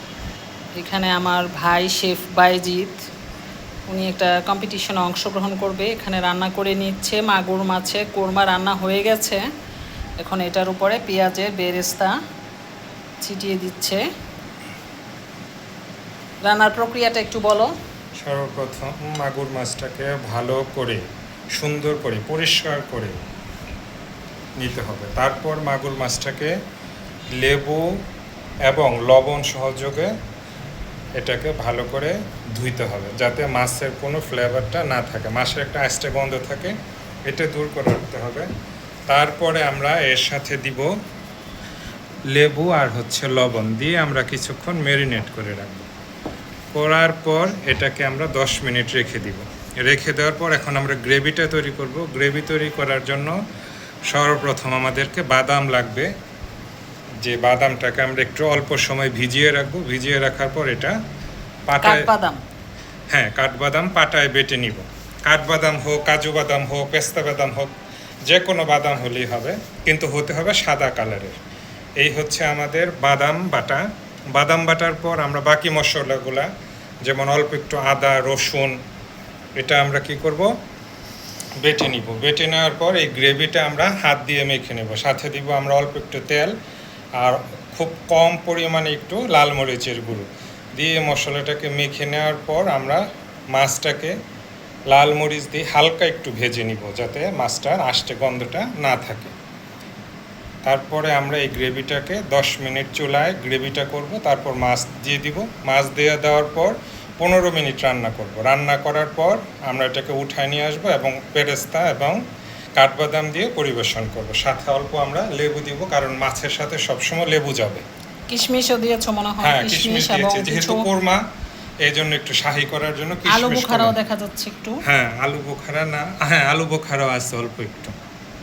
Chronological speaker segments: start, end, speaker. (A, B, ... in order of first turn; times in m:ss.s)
0:00.7-0:03.0 A
0:03.9-0:09.4 A
0:10.2-0:12.2 A
0:13.2-0:14.0 A
0:16.4-0:17.7 A
0:18.2-0:21.0 B
0:21.6-0:23.2 B
0:24.6-0:26.5 B
0:27.4-0:27.9 B
0:28.7-0:30.1 B
0:31.2-0:36.8 B
0:37.3-0:38.5 B
0:39.1-0:40.9 B
0:42.3-0:45.9 B
0:46.7-0:53.3 B
0:54.1-0:56.1 B
0:57.2-1:01.0 B
1:01.7-1:02.1 B
1:01.8-1:02.4 A
1:03.1-1:07.7 B
1:08.3-1:11.4 B
1:12.0-1:13.8 B
1:14.3-1:16.5 B
1:17.0-1:18.8 B
1:19.6-1:20.5 B
1:21.6-1:26.5 B
1:27.2-1:30.2 B
1:30.8-1:33.0 B
1:33.6-1:34.2 B
1:34.9-1:39.3 B
1:40.7-1:52.2 B
1:52.8-1:57.8 B
1:58.3-2:00.9 A
1:59.4-2:01.2 B
2:01.8-2:04.0 B
2:03.3-2:04.8 A
2:04.8-2:07.9 B